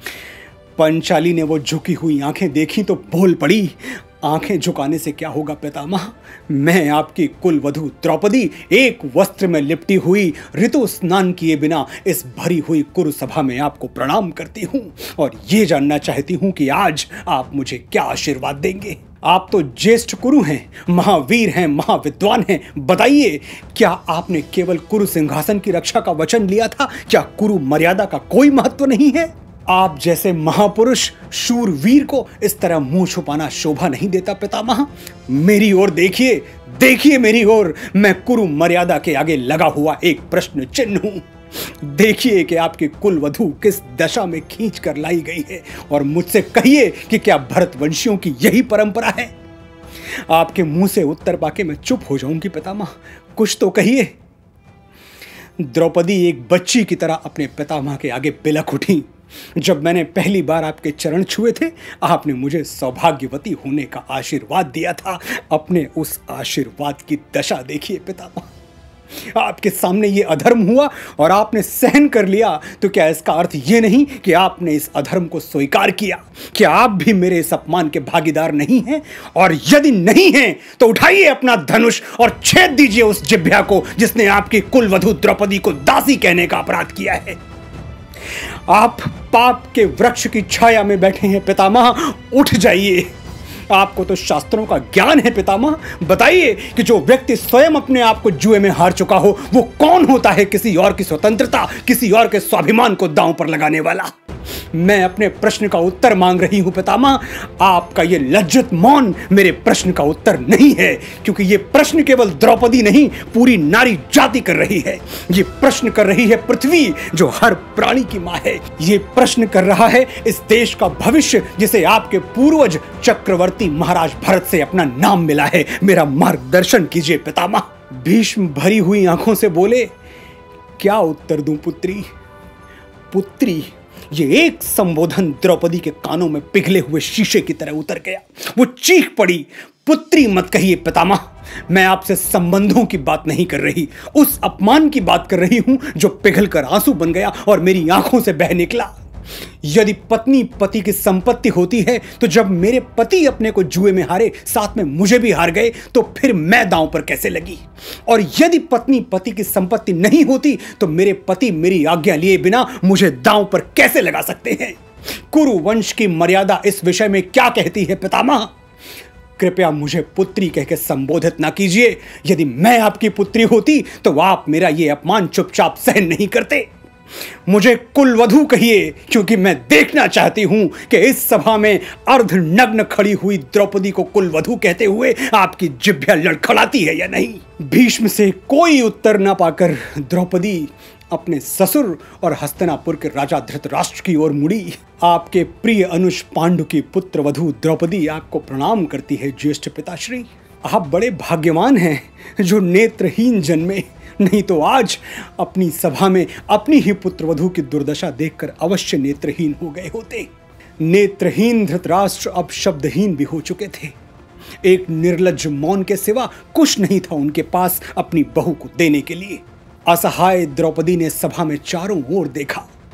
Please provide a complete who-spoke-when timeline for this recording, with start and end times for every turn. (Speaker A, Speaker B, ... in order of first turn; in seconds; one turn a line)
Speaker A: 0.8-49.3
Speaker A: 50.3-54.1
Speaker A: 55.6-68.5
Speaker A: 69.1-87.4
Speaker A: 88.3-93.1
Speaker A: 93.7-104.1
Speaker A: 104.7-129.9
Speaker A: 130.8-132.1
Speaker A: 133.1-148.9
Speaker A: 149.6-168.5
Speaker A: 169.4-176.7
Speaker A: 177.4-210.3
Speaker A: 210.8-213.9
Speaker A: 214.6-222.7